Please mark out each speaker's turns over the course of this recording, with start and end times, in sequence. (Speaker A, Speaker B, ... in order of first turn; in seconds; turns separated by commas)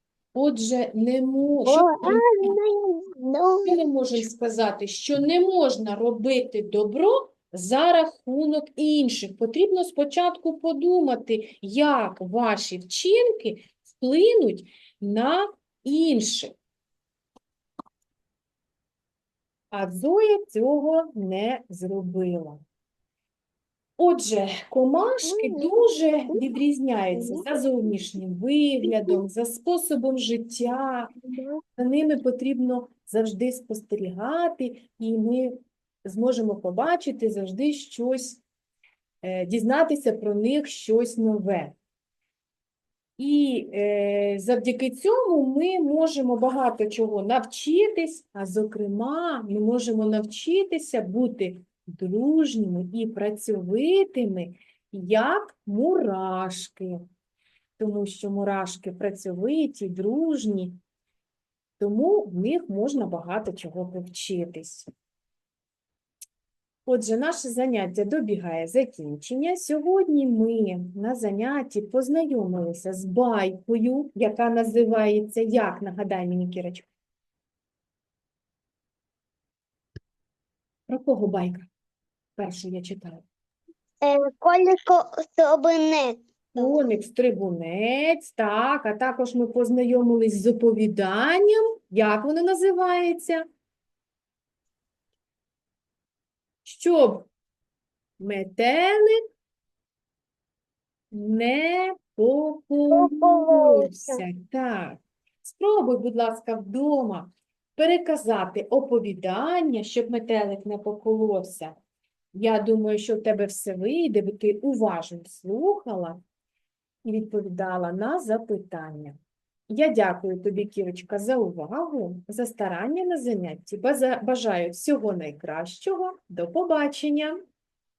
Speaker A: 0.3-2.5, Speaker B: 1.6-3.9, Speaker A: 3.7-16.6, Speaker A: 19.7-22.6, Speaker A: 24.0-31.1, Speaker B: 25.2-26.4, Speaker B: 27.1-27.5, Speaker B: 28.8-29.2, Speaker B: 31.2-31.6, Speaker A: 31.8-38.4, Speaker A: 39.2-41.8, Speaker A: 43.2-57.0, Speaker A: 57.8-60.8, Speaker A: 61.8-64.9, Speaker A: 66.9-76.9, Speaker A: 80.9-81.7, Speaker A: 82.4-83.2, Speaker B: 84.0-87.0, Speaker A: 86.5-93.4, Speaker A: 96.7-97.3, Speaker A: 98.2-99.2, Speaker A: 101.1-111.8, Speaker B: 102.9-104.2, Speaker A: 112.3-116.2, Speaker A: 117.0-119.2, Speaker A: 119.7-127.4